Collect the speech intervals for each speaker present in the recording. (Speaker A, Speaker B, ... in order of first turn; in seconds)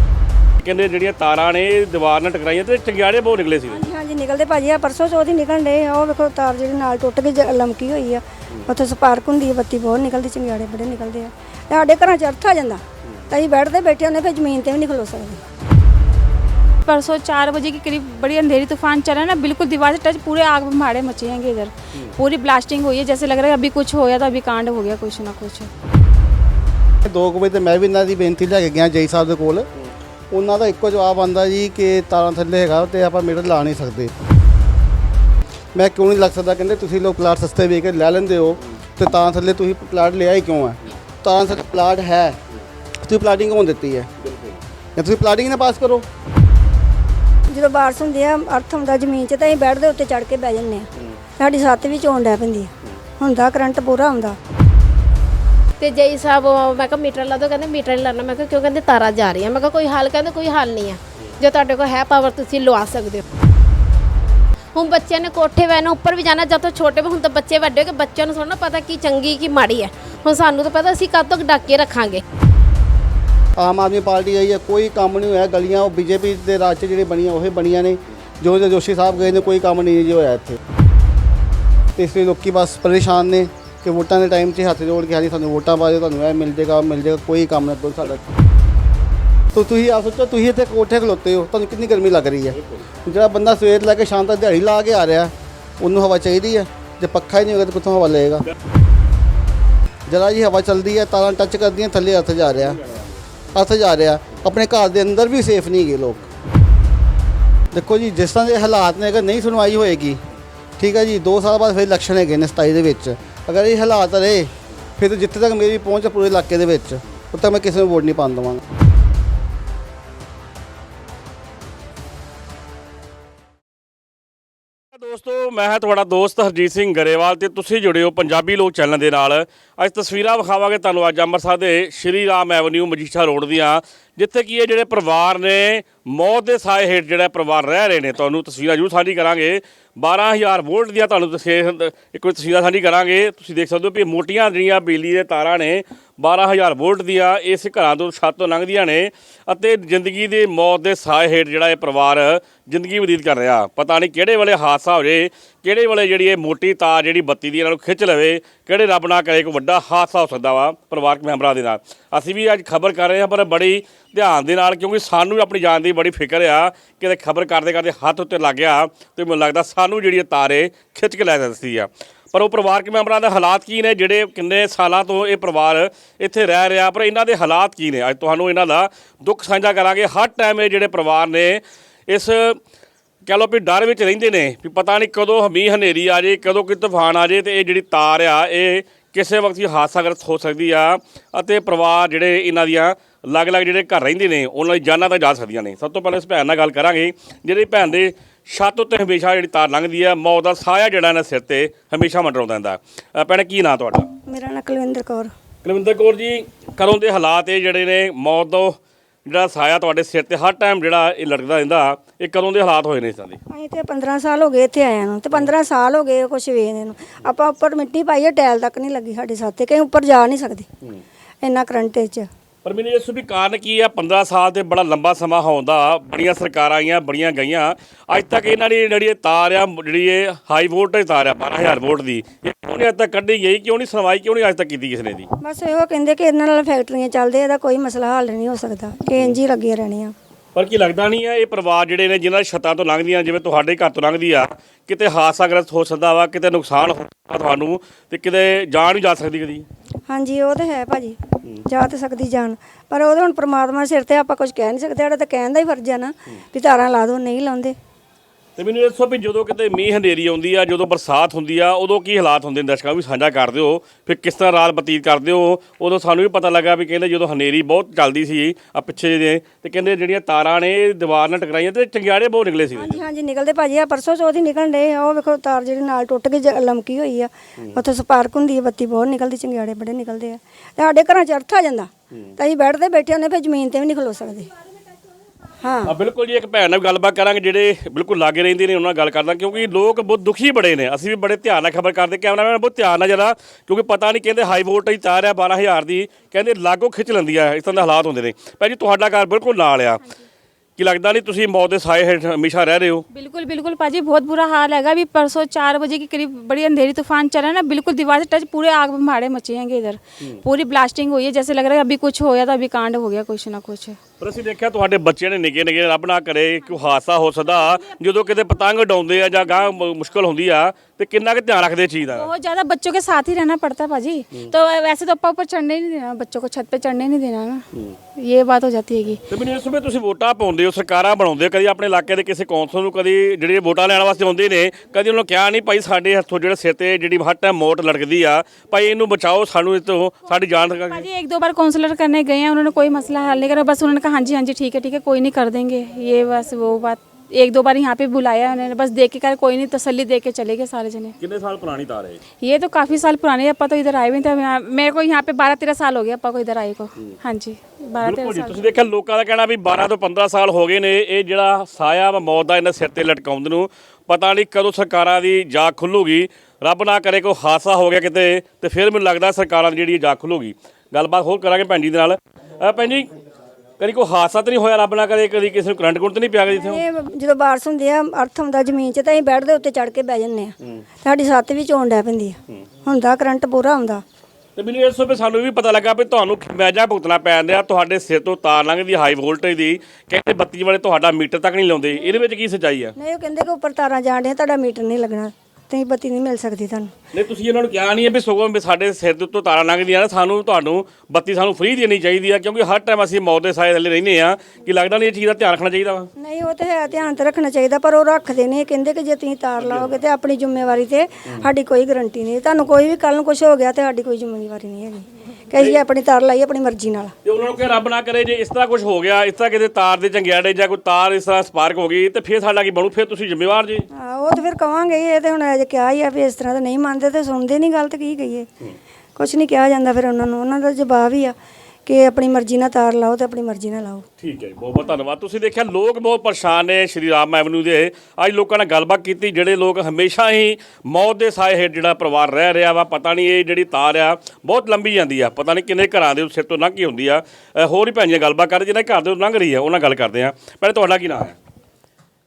Speaker A: 0.6-3.8, 44.2-44.6, 92.5-92.9, 102.8-103.1, 124.9-182.6, 183.2-204.1, 205.6-213.4, 222.6-235.3, 240.6-249.7, 258.6-273.0, 285.9-300.0, 300.8-303.1, 314.2-322.3, 327.7-328.0, 329.3-341.1, 351.2-352.2, 358.0-373.1, 373.8-376.8, 384.6-392.9, 397.1-406.1, 409.6-410.0, 417.2-423.9, 434.2-451.4
Speaker B: 3.7-15.4, 47.5-50.9, 51.4-54.4, 204.3-205.3, 213.5-220.7, 221.4-222.3, 235.4-240.2, 250.1-257.8, 272.8-284.5, 285.6-285.9, 376.5-384.0, 393.0-396.9, 406.2-417.1, 423.9-428.5, 429.2-431.4, 431.9-434.1
Speaker C: 16.9-25.7, 303.1-314.0, 322.1-329.2, 340.9-351.1, 352.4-358.7
Speaker D: 27.1-29.7, 30.3-34.1, 35.7-42.4, 43.0-44.1, 45.0-46.1, 73.6-80.6, 82.0-88.2, 89.5-98.5, 100.1-102.8, 103.5-106.2, 107.7-110.2, 110.8-118.6
Speaker E: 55.8-63.2, 64.7-72.2